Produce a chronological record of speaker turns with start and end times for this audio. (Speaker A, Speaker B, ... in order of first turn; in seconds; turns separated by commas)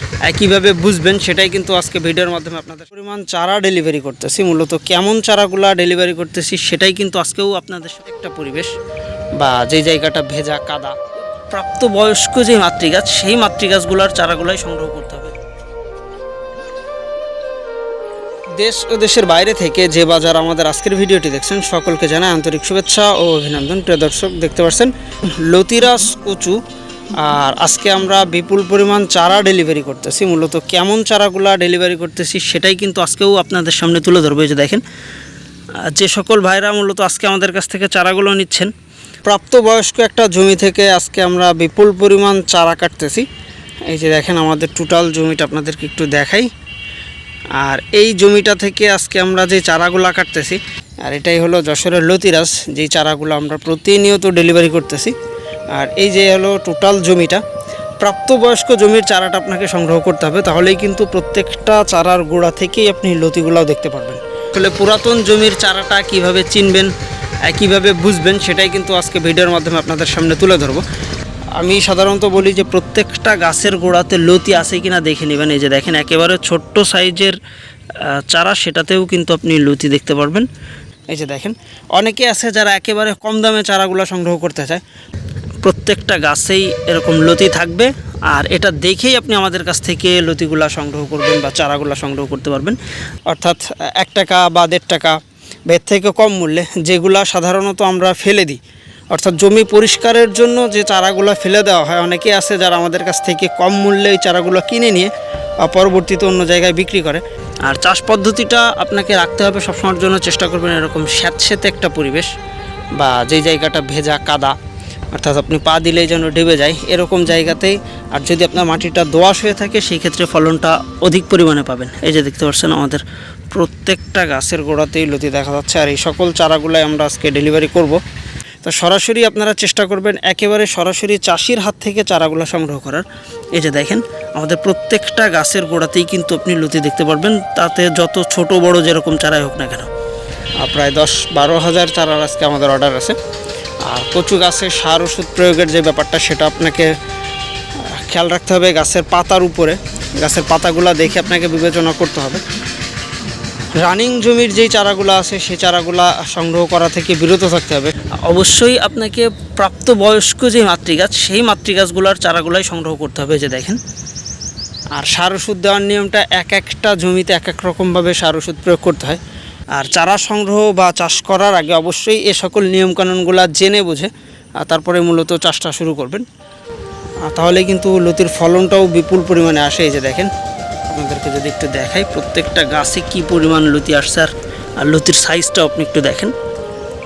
Speaker A: 0.2-8.7, Speaker A: 9.4-15.3, Speaker A: 18.6-26.6, Speaker A: 27.2-34.8, Speaker A: 35.8-38.7, Speaker A: 39.3-43.3, Speaker A: 43.9-46.5, Speaker A: 47.6-55.1, Speaker A: 55.7-57.4, Speaker A: 58.0-66.9, Speaker A: 67.4-70.8, Speaker A: 71.6-77.4, Speaker A: 77.9-80.5, Speaker A: 81.1-84.8, Speaker A: 85.6-112.3, Speaker A: 113.0-114.6, Speaker A: 115.1-128.0, Speaker A: 128.6-139.9, Speaker A: 140.6-143.2, Speaker A: 143.8-146.9, Speaker A: 147.8-152.4, Speaker A: 153.7-163.8, Speaker A: 164.9-169.2, Speaker A: 169.7-176.3, Speaker A: 177.2-180.3, Speaker A: 180.8-186.3